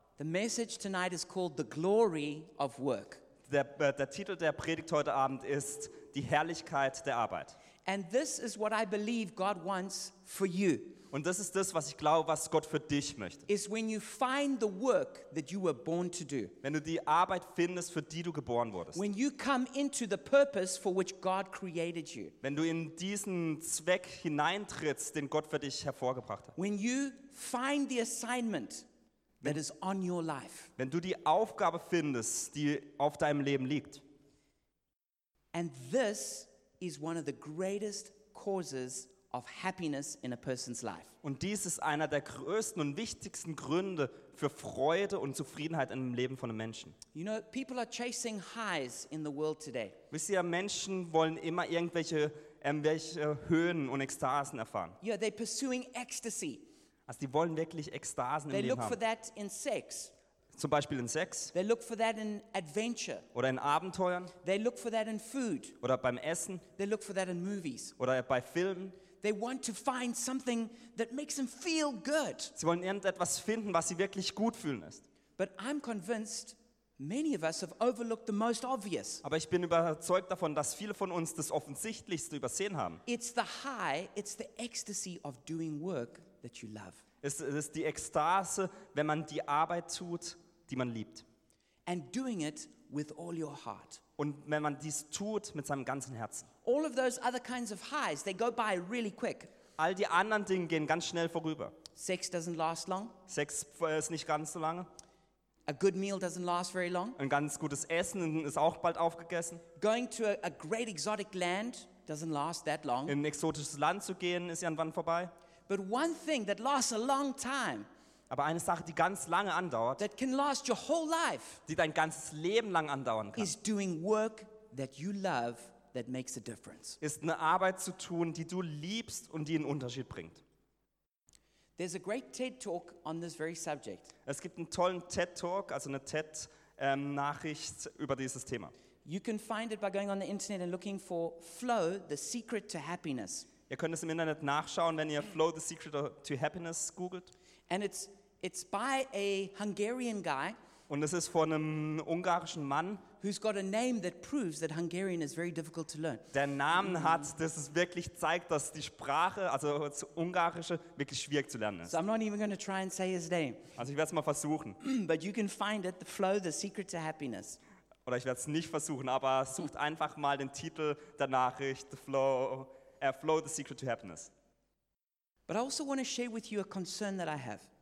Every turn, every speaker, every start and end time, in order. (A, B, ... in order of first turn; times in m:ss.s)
0:00.2-0:03.2 A
0:03.5-0:07.6 B
0:07.9-0:11.0 A
0:11.1-0:13.4 B
0:13.5-0:16.5 A
0:16.6-0:19.0 B
0:18.9-0:22.4 A
0:22.4-0:26.5 B
0:26.6-0:28.9 A
0:29.4-0:30.7 A
0:30.8-0:34.0 B
0:35.5-0:41.1 A
0:41.2-0:47.0 B
0:47.1-0:50.0 A
0:50.1-0:55.0 B
0:55.0-0:56.6 A
0:57.1-0:59.0 B
0:58.5-1:00.1 A
1:00.5-1:01.5 B
1:01.5-1:03.3 A
1:03.3-1:04.3 B
1:04.4-1:05.8 A
1:05.8-1:06.6 B
1:06.8-1:08.0 A
1:08.0-1:09.0 B
1:09.2-1:12.5 A
1:12.6-1:15.0 B
1:15.4-1:19.2 A
1:19.2-1:23.0 B
1:23.1-1:27.0 A
1:27.2-1:31.2 B
1:31.9-1:34.0 A
1:34.2-1:36.5 B
1:36.6-1:39.5 A
1:39.8-1:41.8 B
1:42.0-1:43.2 A
1:43.3-1:44.9 B
1:45.7-1:47.2 A
1:47.2-1:49.6 B
1:49.8-1:53.2 A
1:53.1-1:55.3 B
1:55.7-1:57.9 A
1:58.3-2:00.0 B
2:00.0-2:01.6 A
2:01.7-2:03.5 B
2:03.4-2:07.0 A
2:07.0-2:10.4 B
2:11.8-2:14.1 A
2:14.3-2:18.7 B
2:19.0-2:23.5 A
2:23.7-2:27.3 B
2:27.7-2:30.6 A
2:30.9-2:33.0 B
2:33.2-2:36.3 A
2:36.3-2:42.0 B
2:41.9-2:43.7 A
2:43.8-2:44.8 B
2:44.8-2:47.6 A
2:48.1-2:54.3 B
2:55.5-2:57.7 A